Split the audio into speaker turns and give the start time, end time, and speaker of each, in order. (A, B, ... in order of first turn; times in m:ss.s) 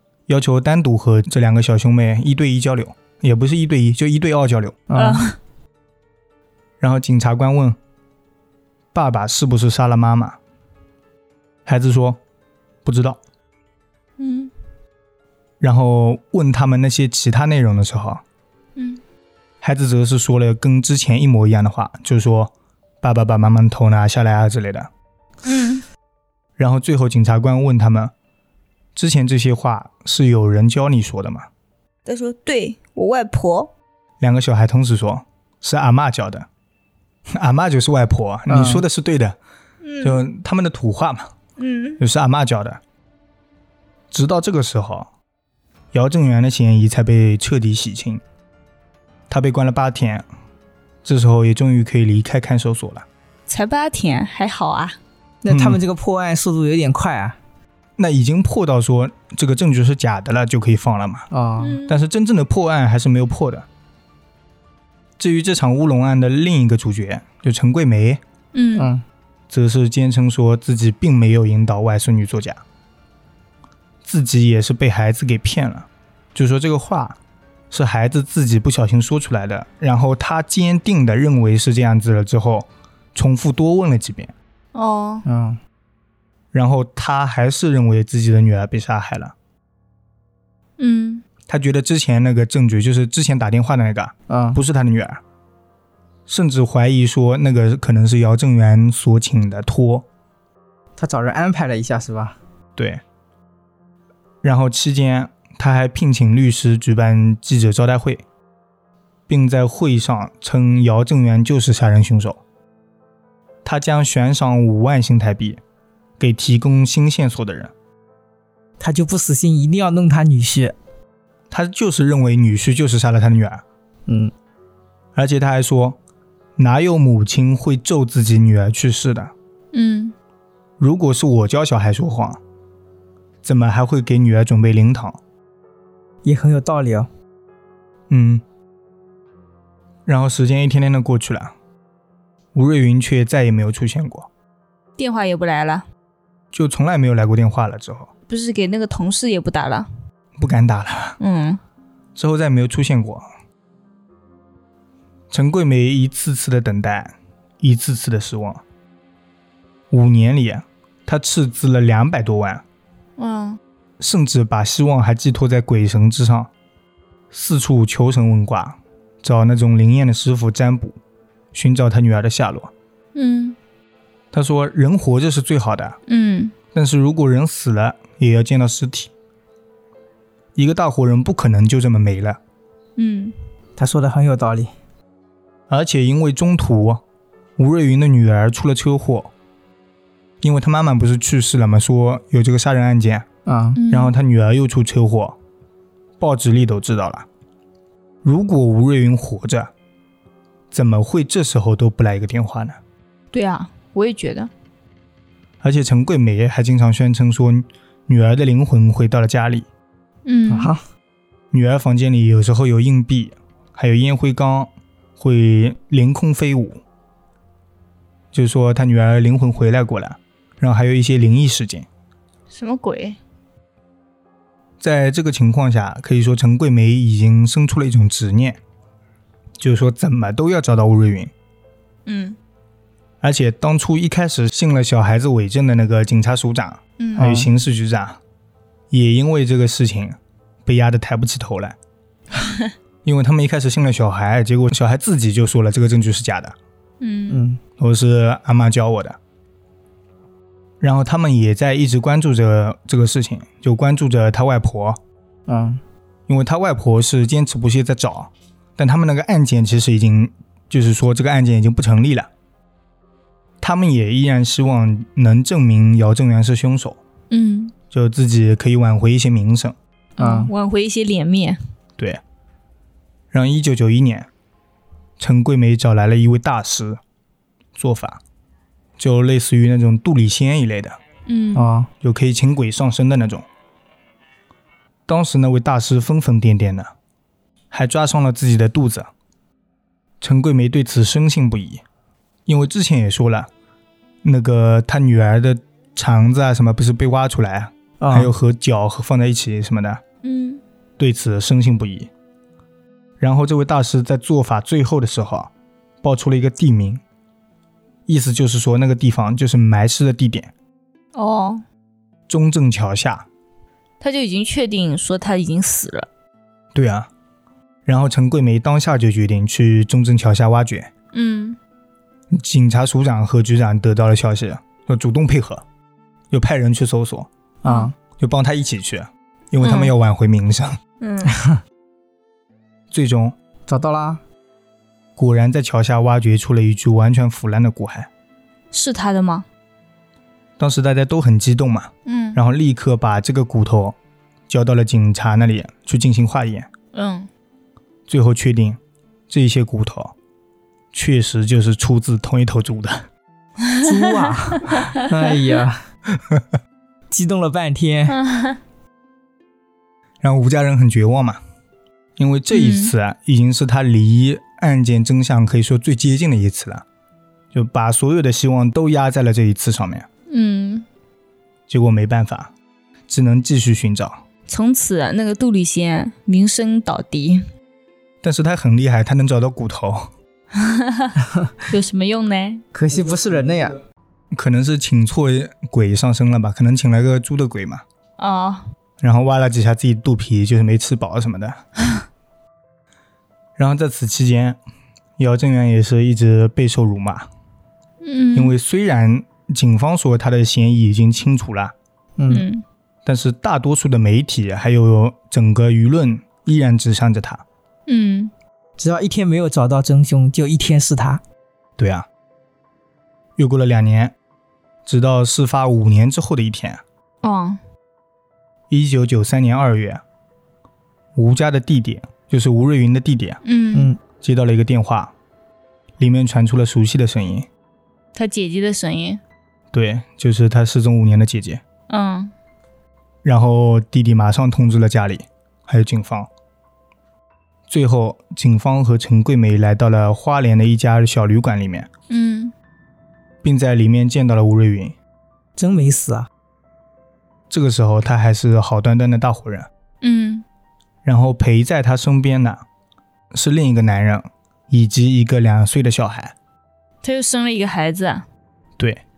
0:00.3-0:04.8 A
0:04.9-0:05.3 B
0:04.9-0:05.4 C
0:06.8-0:07.8 A
0:08.9-0:10.4 A
0:11.6-0:12.2 A
0:12.8-0:13.2 A
0:14.2-0:14.5 C
0:15.6-0:18.2 A
0:18.8-0:19.0 C
0:19.6-0:24.9 A
0:25.4-0:25.8 C
0:26.6-0:28.1 A
0:28.9-0:31.5 A
0:32.0-0:33.7 C
0:34.2-0:36.5 A
0:37.3-0:39.4 A
0:38.5-0:38.8 B
0:39.8-0:40.2 C
0:40.0-0:41.3 A
0:41.6-0:42.0 C
0:42.0-0:42.8 A
0:44.1-0:45.1 A
0:45.9-0:48.2 A
0:49.3-0:50.2 A
0:51.0-0:53.0 A
0:53.5-0:55.0 C
0:55.4-0:57.4 B
0:55.5-0:55.8 A
0:58.0-1:01.3 A
1:01.3-1:01.8 B
1:01.6-1:01.9 C
1:01.9-1:03.7 A
1:05.2-1:08.2 A
1:08.5-1:08.9 C
1:08.8-1:09.0 B
1:09.5-1:12.6 A
1:14.0-1:17.2 A
1:17.7-1:24.3 A
1:24.7-1:25.2 C
1:25.2-1:25.6 B
1:26.5-1:29.3 A
1:30.8-1:31.2 C
1:31.5-1:35.2 A
1:34.3-1:34.6 B
1:36.3-1:40.0 A
1:41.0-1:42.4 B
1:42.8-1:43.0 A
1:44.4-1:48.2 A
1:49.3-1:52.4 A
1:53.6-1:55.6 A
1:56.2-1:57.7 A
1:58.8-2:00.8 B
2:01.5-2:03.6 A
2:04.1-2:04.3 B
2:05.1-2:06.0 A
2:06.6-2:09.3 A
2:09.7-2:10.1 C
2:10.8-2:12.4 A
2:13.4-2:15.2 A
2:16.2-2:17.1 B
2:18.1-2:18.4 A
2:20.0-2:21.5 A
2:22.5-2:24.3 A
2:25.0-2:25.8 C
2:26.5-2:28.1 A
2:28.3-2:29.9 C
2:30.4-2:31.2 A
2:31.2-2:31.6 C
2:32.2-2:33.2 A
2:35.3-2:38.6 A
2:39.9-2:42.6 A
2:43.2-2:43.6 C
2:44.0-2:46.5 A
2:47.3-2:51.0 A
2:51.5-2:52.7 A
2:53.1-2:53.6 C
2:54.3-2:56.0 A
2:56.1-2:56.5 C
2:56.7-2:59.1 A
3:00.5-3:02.4 A
3:03.0-3:03.4 C
3:03.8-3:04.7 B
3:05.7-3:07.0 A
3:07.6-3:09.3 A
3:10.4-3:13.2 A
3:13.4-3:13.8 B
3:13.8-3:14.1 C
3:13.9-3:15.4 A
3:16.2-3:17.2 A
3:18.2-3:19.7 A
3:20.7-3:22.8 A
3:23.3-3:24.5 C
3:25.6-3:29.7 A
3:30.2-3:30.7 C
3:30.5-3:30.8 B
3:31.5-3:36.8 A
3:38.3-3:41.9 A
3:42.5-3:43.2 C
3:44.8-3:48.6 A
3:49.6-3:51.3 A
3:52.0-3:52.4 C
3:53.2-3:58.2 A
3:57.0-3:57.3 C
3:57.2-3:57.5 B
3:58.9-4:01.8 A
4:02.4-4:02.7 C
4:03.0-4:06.5 A
4:07.0-4:07.4 C
4:07.3-4:07.6 B
4:07.8-4:09.2 A
4:10.8-4:15.0 A
4:15.5-4:15.8 B
4:16.3-4:22.3 A
4:23.6-4:27.0 A
4:27.3-4:27.7 C
4:27.9-4:29.8 A
4:30.2-4:30.5 B
4:30.2-4:31.6 C
4:33.3-4:34.3 A
4:35.2-4:37.0 A
4:37.7-4:38.2 A
4:39.0-4:41.0 A
4:41.2-4:41.7 C
4:41.5-4:41.9 B
4:42.0-4:43.4 A
4:45.1-4:46.9 A
4:47.7-4:49.1 A
4:50.2-4:51.8 A
4:52.4-4:53.5 A
4:54.2-5:00.0 A
4:58.0-4:58.3 B
5:00.2-5:00.6 C
5:01.0-5:02.1 A
5:03.2-5:05.5 A
5:06.0-5:07.0 A
5:08.1-5:10.5 A
5:11.1-5:11.6 C
5:12.3-5:13.2 A
5:14.0-5:16.1 C
5:16.7-5:17.1 A
5:17.8-5:20.9 A
5:21.1-5:21.6 C
5:22.3-5:25.6 A
5:26.3-5:27.3 A
5:27.6-5:27.9 B
5:27.6-5:27.9 C
5:28.2-5:30.8 A
5:29.6-5:29.9 C
5:31.0-5:31.4 C
5:31.2-5:31.6 B
5:32.9-5:33.4 A
5:33.7-5:34.2 B
5:35.2-5:38.1 A
5:38.7-5:39.4 C
5:40.6-5:44.0 A
5:42.0-5:42.4 C
5:44.5-5:46.7 A
5:46.9-5:47.3 C
5:48.1-5:50.1 A
5:50.9-5:53.1 A
5:53.6-5:55.0 C
5:53.8-5:55.8 B
5:57.1-5:58.2 B
5:58.1-5:58.6 C
6:00.2-6:01.4 A
6:02.2-6:06.8 A
6:02.5-6:02.9 C
6:07.5-6:10.1 A
6:10.3-6:10.8 C
6:11.7-6:12.5 A
6:13.1-6:14.2 A
6:14.5-6:17.4 C
6:18.2-6:20.1 A
6:20.5-6:22.6 C
6:22.7-6:23.8 B
6:24.3-6:27.8 A
6:28.2-6:28.6 C
6:29.0-6:31.6 A
6:33.6-6:34.6 A
6:35.2-6:37.3 A
6:38.0-6:38.5 C
6:38.3-6:41.7 A
6:42.2-6:42.4 B
6:42.3-6:42.6 C
6:43.0-6:47.4 A
6:47.9-6:48.3 C
6:48.8-6:51.2 B
6:51.8-6:52.1 A
6:53.4-6:54.1 A
6:54.8-6:56.8 A
6:57.2-6:57.6 C
6:58.7-7:00.0 A
7:01.1-7:03.4 A
7:03.4-7:03.9 C
7:03.7-7:04.0 B
7:04.2-7:05.1 A
7:06.0-7:07.5 A
7:08.1-7:09.2 C
7:09.7-7:11.6 A
7:11.9-7:12.3 C
7:13.2-7:16.3 A
7:17.7-7:21.9 A
7:22.1-7:22.5 C
7:23.4-7:25.0 A
7:25.6-7:26.3 B
7:27.5-7:29.7 A
7:30.0-7:30.4 C
7:31.0-7:32.6 A
7:33.3-7:36.3 A
7:37.0-7:38.2 C